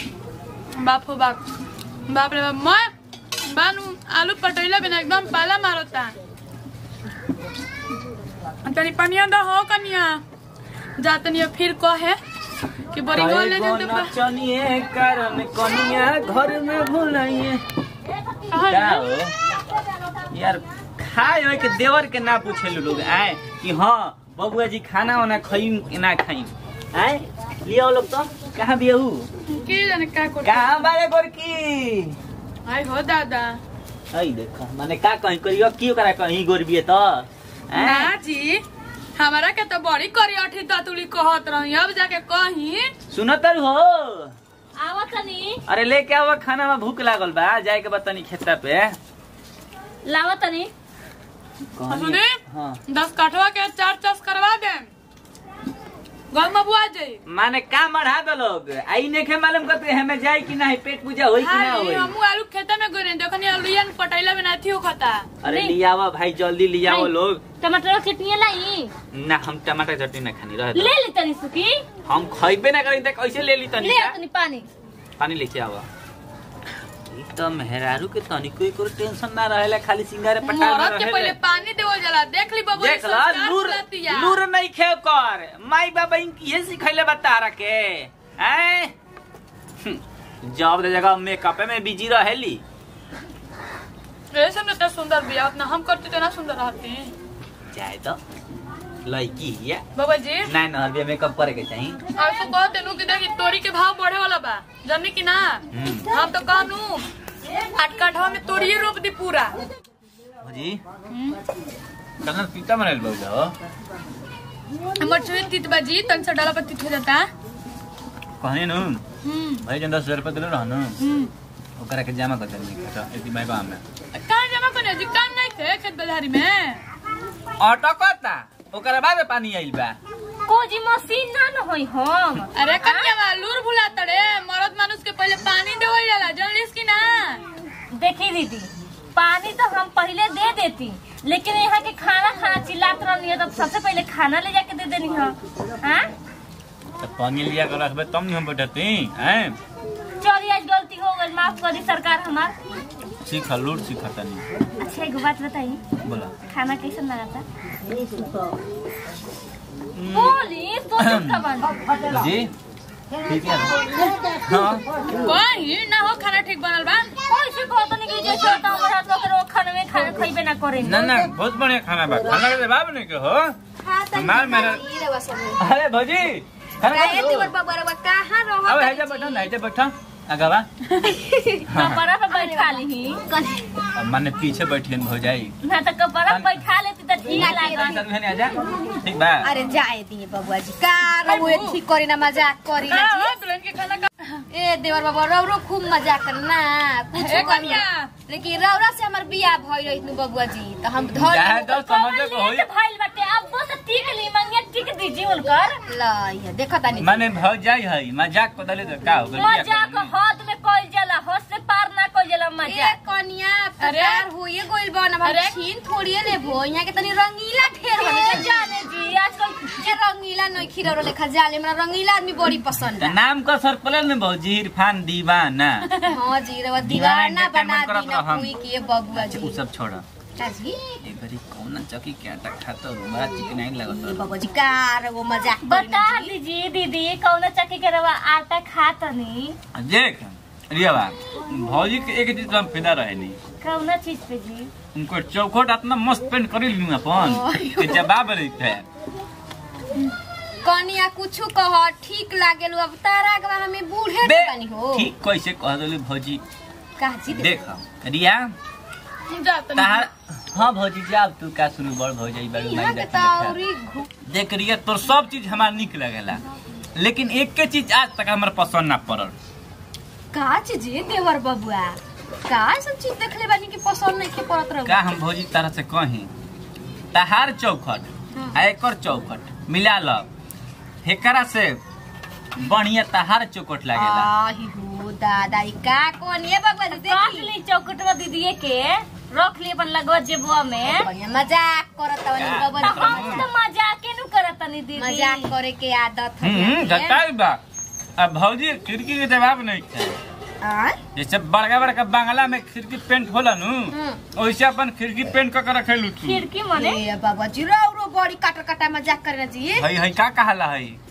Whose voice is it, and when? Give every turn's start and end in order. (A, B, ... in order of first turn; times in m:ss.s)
0:00.8-0:01.4 A
0:02.1-0:02.9 A
0:03.4-0:06.1 A
0:08.6-0:10.2 A
0:11.0-0:12.2 A
0:12.9-0:14.1 A
0:13.1-0:17.6 B
0:18.5-0:19.1 A
0:18.7-0:19.3 B
0:20.3-0:29.3 B
0:29.5-0:30.8 A
0:30.4-0:32.2 B
0:32.6-0:33.6 A
0:34.1-0:38.1 B
0:37.7-0:38.6 A
0:39.2-0:42.9 A
0:43.1-0:44.3 B
0:44.8-0:45.6 C
0:45.7-0:49.0 B
0:50.0-0:50.7 C
0:51.8-0:52.8 B
0:51.9-0:54.9 A
0:56.3-0:57.2 A
0:57.2-1:02.1 B
1:01.4-1:05.2 A
1:05.4-1:07.4 B
1:05.4-1:05.8 C
1:06.8-1:08.9 C
1:09.1-1:10.9 B
1:10.7-1:11.8 C
1:12.0-1:14.2 B
1:13.8-1:14.7 C
1:15.2-1:15.8 B
1:17.1-1:21.4 B
1:20.4-1:24.4 A
1:22.8-1:28.9 B
1:29.8-1:32.6 B
1:34.3-1:37.1 A
1:37.7-1:38.2 B
1:39.0-1:39.8 B
1:40.0-1:40.5 A
1:40.4-1:42.0 B
1:42.2-1:47.1 A
1:45.7-1:46.1 B
1:47.8-1:49.6 A
1:50.4-1:50.8 B
1:51.1-1:51.4 A
1:52.2-1:53.5 B
1:55.0-1:57.3 A
1:58.4-1:59.0 B
1:59.2-1:59.6 A
1:59.6-2:01.0 B
2:01.0-2:01.3 A
2:01.8-2:03.8 B
2:04.1-2:06.8 A
2:07.6-2:10.0 B
2:10.4-2:13.1 C
2:12.5-2:17.4 A
2:17.9-2:26.1 C
2:27.0-2:29.6 B
2:30.2-2:32.5 C
2:33.2-2:34.4 B
2:34.8-2:35.8 C
2:36.0-2:36.3 B
2:36.5-2:37.4 C
2:39.9-2:40.4 B
2:40.0-2:41.7 C
2:41.0-2:41.4 B
2:42.1-2:42.5 B
2:43.2-2:43.8 B
2:44.4-2:44.8 B
2:45.2-2:47.1 A
2:47.3-2:51.2 C
2:48.2-2:49.2 D
2:50.8-2:53.5 B
2:53.8-2:55.6 D
2:54.1-2:54.8 B
2:55.6-2:57.5 B
2:56.8-2:59.5 D
2:58.6-3:00.7 B
3:01.0-3:01.7 D
3:01.7-3:02.0 B
3:01.7-3:03.2 C
3:02.3-3:03.8 D
3:04.0-3:05.5 B
3:05.6-3:08.0 C
3:06.3-3:06.6 B
3:07.3-3:09.5 B
3:07.4-3:08.0 D
3:09.4-3:13.4 D
3:11.2-3:11.8 A
3:12.8-3:14.4 A
3:14.5-3:21.8 D
3:17.1-3:18.1 A
3:21.1-3:22.7 B
3:21.6-3:25.8 C
3:25.9-3:27.2 D
3:27.0-3:30.1 B
3:29.3-3:32.9 C
3:32.6-3:38.7 D
3:33.8-3:34.3 A
3:35.2-3:35.6 A
3:38.0-3:39.9 C
3:39.8-3:43.2 D
3:43.0-3:45.9 B
3:46.0-3:49.6 D
3:46.8-3:48.5 B
3:49.1-3:50.0 B
3:50.4-3:50.8 D
3:51.0-3:54.2 B
3:53.9-3:56.3 D
3:55.6-3:59.6 C
3:59.7-4:03.4 B
4:03.6-4:04.7 C
4:04.9-4:08.8 B
4:07.2-4:08.1 D
4:10.6-4:15.1 D
4:14.2-4:16.4 B
4:17.0-4:17.6 D
4:17.3-4:18.5 B
4:19.3-4:20.1 A
4:19.7-4:23.6 B
4:22.5-4:24.1 D
4:24.3-4:26.4 B
4:27.0-4:29.3 B
4:30.3-4:35.1 D
4:34.8-4:36.3 B
4:37.1-4:40.3 B
4:38.3-4:38.6 D
4:41.0-4:41.8 B
4:42.6-4:44.3 B
4:43.9-4:47.5 D
4:46.9-4:51.1 C
4:50.8-4:53.5 D
4:52.4-4:53.5 B
4:52.8-4:55.5 C
4:55.0-4:57.2 D
4:56.4-4:57.6 B
4:58.2-5:00.2 B
5:00.6-5:01.0 D
5:01.1-5:06.4 B
5:03.9-5:04.2 D
5:06.2-5:07.0 C
5:06.7-5:09.9 D
5:09.8-5:11.0 B